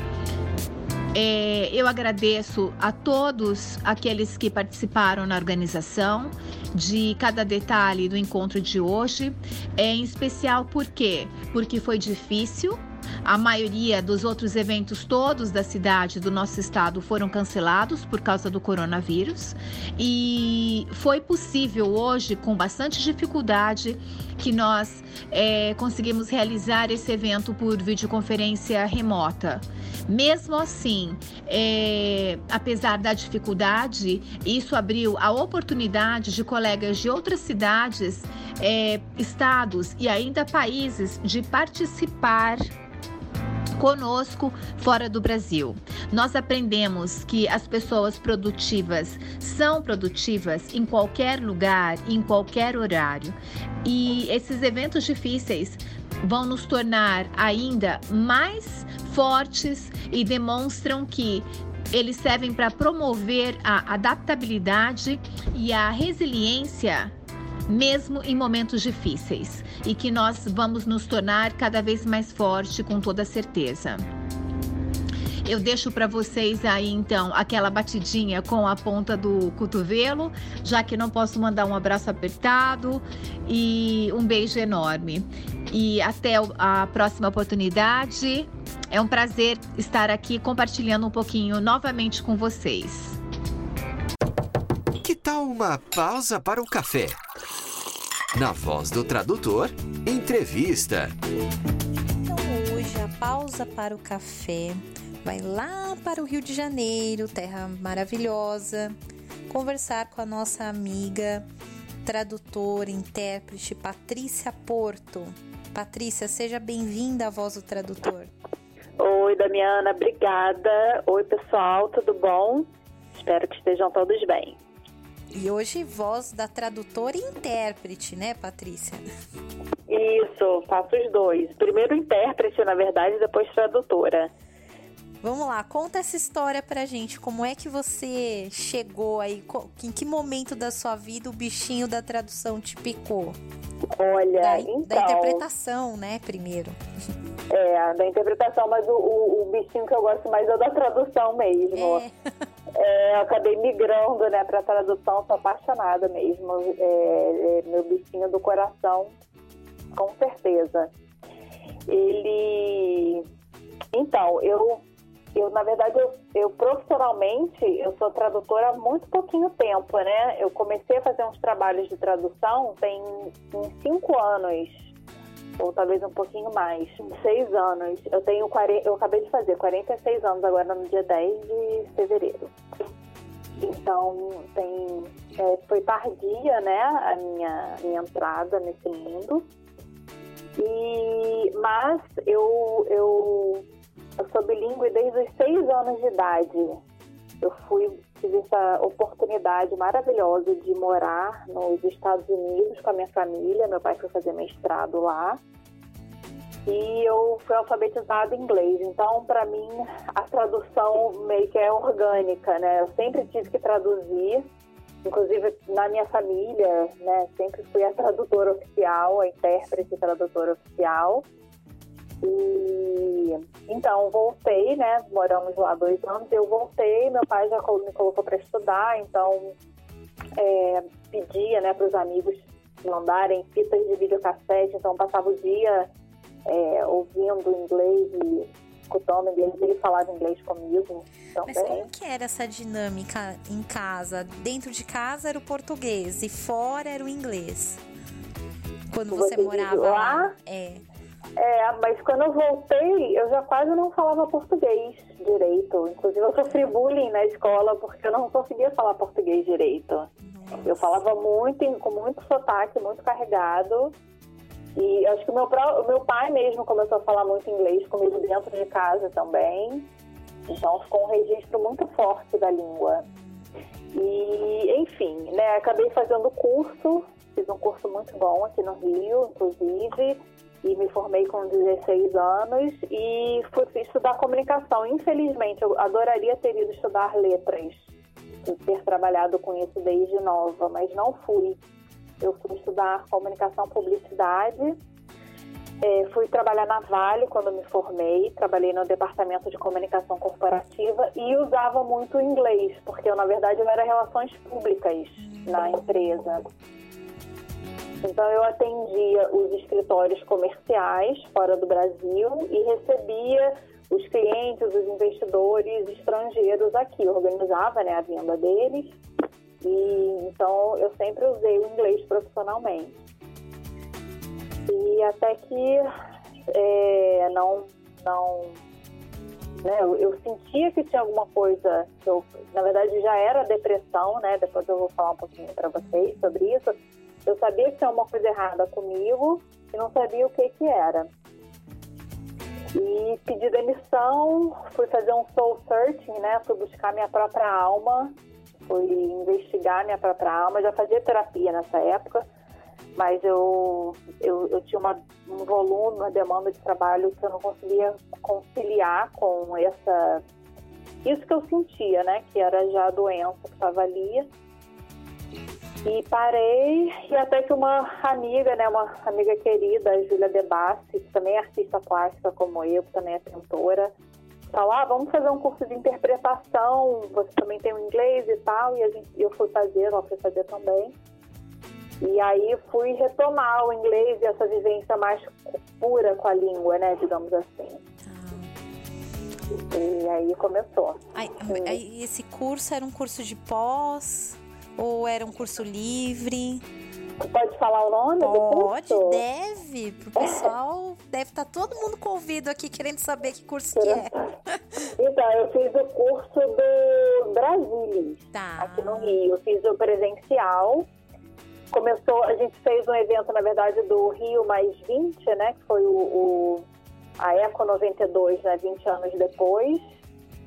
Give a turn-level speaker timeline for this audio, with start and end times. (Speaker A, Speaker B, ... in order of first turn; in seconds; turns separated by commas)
Speaker A: 1.1-42.7, Speaker A: 43.8-67.1, Speaker A: 67.7-74.0, Speaker A: 75.5-93.2, Speaker B: 95.0-97.2, Speaker B: 98.3-101.2, Speaker C: 102.2-109.0, Speaker C: 109.5-111.5, Speaker C: 112.0-118.3, Speaker D: 119.0-124.6, Speaker C: 125.3-129.1, Speaker D: 129.9-134.3, Speaker C: 135.2-143.4, Speaker D: 144.0-145.4, Speaker C: 144.4-146.8, Speaker D: 147.5-152.0, Speaker C: 151.7-152.1, Speaker D: 152.7-159.2, Speaker D: 159.9-160.9, Speaker D: 161.9-163.2, Speaker D: 163.9-164.8, Speaker D: 165.3-174.8, Speaker D: 175.6-182.5, Speaker D: 183.6-189.5, Speaker D: 190.6-193.7, Speaker D: 194.2-196.8, Speaker D: 197.4-205.4, Speaker D: 206.7-214.4, Speaker D: 215.0-221.2, Speaker D: 222.2-229.5, Speaker D: 230.4-235.9, Speaker D: 236.4-241.9, Speaker C: 241.5-247.8, Speaker C: 248.9-250.8, Speaker D: 249.1-250.3, Speaker D: 251.4-260.1, Speaker C: 260.2-261.0, Speaker D: 260.6-263.9, Speaker D: 264.8-269.9, Speaker D: 270.5-273.1, Speaker C: 273.1-273.4, Speaker D: 273.9-287.9, Speaker D: 288.4-291.6, Speaker D: 292.2-294.8, Speaker D: 295.8-306.4, Speaker C: 305.2-305.8, Speaker D: 308.0-319.0, Speaker D: 319.6-323.0, Speaker D: 324.7-325.8, Speaker D: 326.5-328.6, Speaker D: 329.6-336.7, Speaker D: 337.3-341.1, Speaker D: 342.8-348.1, Speaker D: 348.7-352.3, Speaker D: 353.0-360.2, Speaker D: 361.0-364.3, Speaker D: 365.9-373.9, Speaker D: 374.5-380.9, Speaker D: 382.0-387.8, Speaker C: 388.1-388.5, Speaker D: 389.7-391.8, Speaker C: 391.1-396.6, Speaker D: 397.2-399.2, Speaker C: 398.2-404.6, Speaker D: 403.8-404.2, Speaker D: 405.0-410.9, Speaker C: 408.3-409.2, Speaker D: 411.7-416.6, Speaker D: 417.2-419.8